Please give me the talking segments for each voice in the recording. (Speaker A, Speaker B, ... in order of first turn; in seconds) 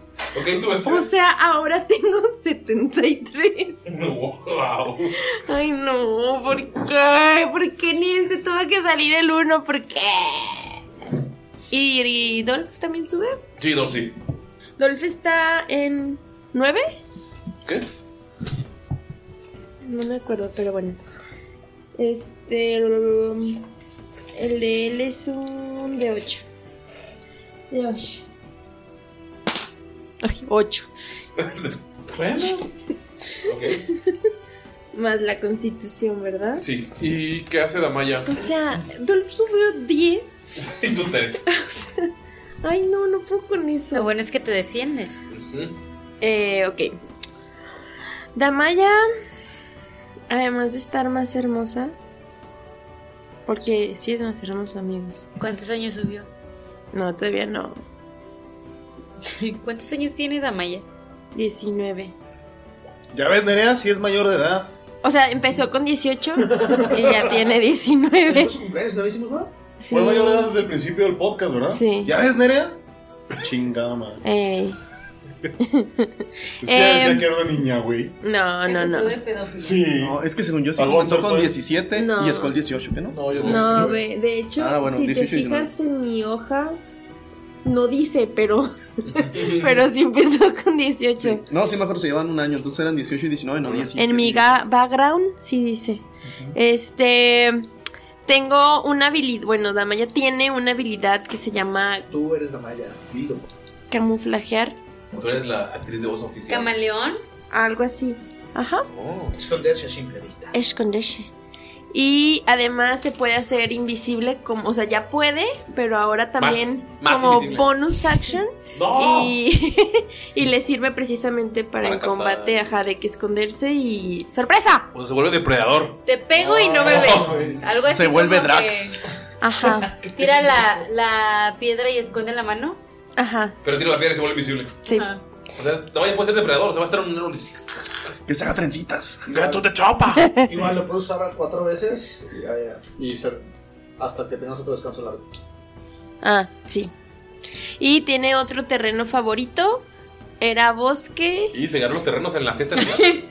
Speaker A: 0.3-1.1, 3.9-5.2, 13.6-14.2, 31.4-31.8, 33.4-33.9, 36.6-38.4, 40.6-41.4, 45.3-45.8, 89.3-89.7, 105.2-106.7, 108.9-109.4, 116.4-117.7, 118.7-119.3, 121.8-122.7, 124.9-127.6, 133.6-134.8, 135.6-137.7, 139.3-140.3, 151.5-153.2
Speaker B: 0.8-3.9, 5.3-10.8, 11.7-13.4, 14.8-16.9, 19.8-21.0, 22.0-23.6, 24.4-26.4, 27.7-28.2, 30.2-30.9, 34.9-36.6, 38.3-40.5, 41.5-42.1, 42.6-44.1, 46.2-47.0, 48.4-49.0, 50.3-52.0, 53.5-55.2, 56.9-57.8, 61.3-62.1, 65.0-68.5, 69.8-70.5, 71.7-72.1, 74.2-74.8, 75.6-77.3, 78.2-79.2, 82.0-82.6, 83.4-86.8, 87.6-91.4, 94.0-97.6, 98.3-102.1, 103.9-104.8, 107.5-108.9, 110.5-111.3, 111.9-124.9, 129.4-129.9, 133.2-133.6, 146.2-146.9, 147.8-149.8, 150.4-151.5
Speaker C: 32.1-32.7, 66.5-67.5, 68.2-69.5, 83.1-84.0, 102.1-103.5, 109.3-110.5, 139.3-139.9, 140.4-143.4, 144.0-145.2
Speaker D: 43.9-45.1, 55.4-56.3, 59.2-60.8, 78.6-79.9, 106.5-107.2, 126.1-129.0, 130.1-132.8, 134.9-135.2
Speaker E: 63.1-64.7, 69.9-72.8, 73.3-74.2, 76.6-78.2, 79.6-80.2, 80.8-81.6
Speaker F: 80.0-83.8, 84.6-85.7, 91.3-94.6, 127.9-128.9, 138.3-139.2